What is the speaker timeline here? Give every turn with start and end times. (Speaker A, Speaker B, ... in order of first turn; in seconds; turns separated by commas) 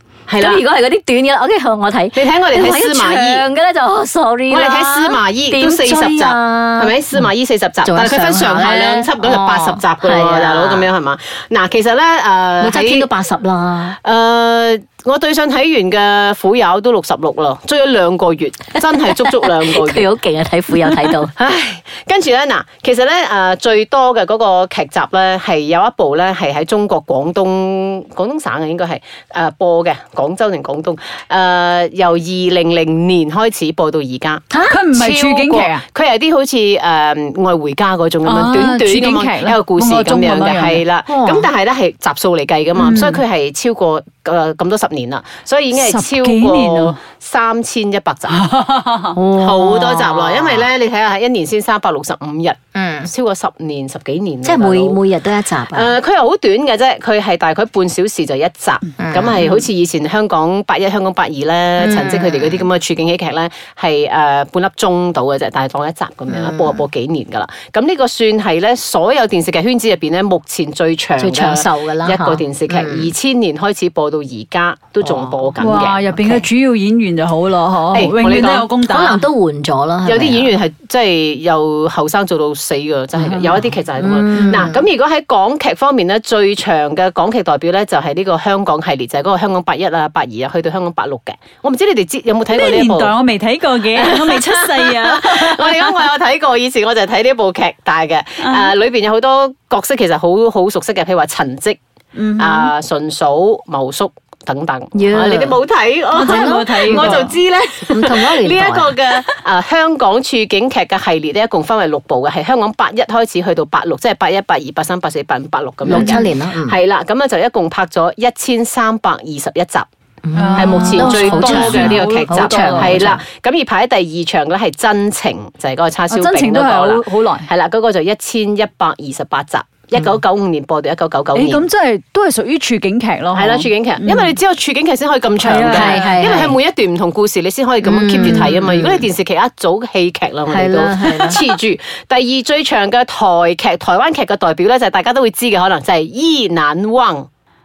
Speaker A: 0.3-0.6, Speaker B: 0.3-7.0, Speaker A: 2.1-3.5, Speaker A: 4.5-13.1, Speaker B: 7.8-10.9, Speaker B: 12.6-14.0, Speaker A: 14.0-20.1, Speaker B: 18.8-21.3, Speaker A: 20.7-48.5, Speaker B: 34.5-34.8, Speaker C: 34.7-35.8, Speaker C: 38.2-40.8, Speaker B: 41.1-41.5, Speaker C: 42.8-43.2, Speaker C: 45.7-47.0, Speaker C: 48.3-49.2, Speaker B: 49.1-50.7, Speaker A: 49.4-55.0, Speaker B: 52.8-53.1, Speaker B: 54.4-56.0, Speaker A: 55.7-76.1, Speaker B: 59.0-59.4, Speaker B: 61.8-62.6, Speaker B: 66.3-66.8, Speaker B: 71.2-73.1, Speaker B: 75.0-76.4, Speaker C: 75.6-79.2, Speaker A: 77.9-78.7, Speaker B: 78.8-80.5, Speaker A: 80.0-93.1, Speaker C: 83.2-83.6, Speaker B: 84.0-84.8, Speaker C: 92.5-96.0, Speaker A: 94.0-101.8, Speaker C: 98.4-98.7, Speaker C: 102.2-102.7, Speaker A: 102.4-119.9, Speaker B: 104.9-105.6, Speaker C: 106.1-107.3, Speaker B: 106.2-107.3, Speaker B: 107.9-109.0, Speaker B: 115.9-116.8, Speaker C: 115.9-116.2, Speaker B: 120.3-123.2, Speaker C: 120.4-123.1, Speaker A: 120.6-131.7, Speaker C: 126.1-127.5, Speaker C: 131.3-134.3, Speaker A: 133.3-147.3, Speaker C: 135.4-136.2, Speaker B: 135.7-136.6, Speaker B: 137.8-139.0, Speaker B: 140.5-141.4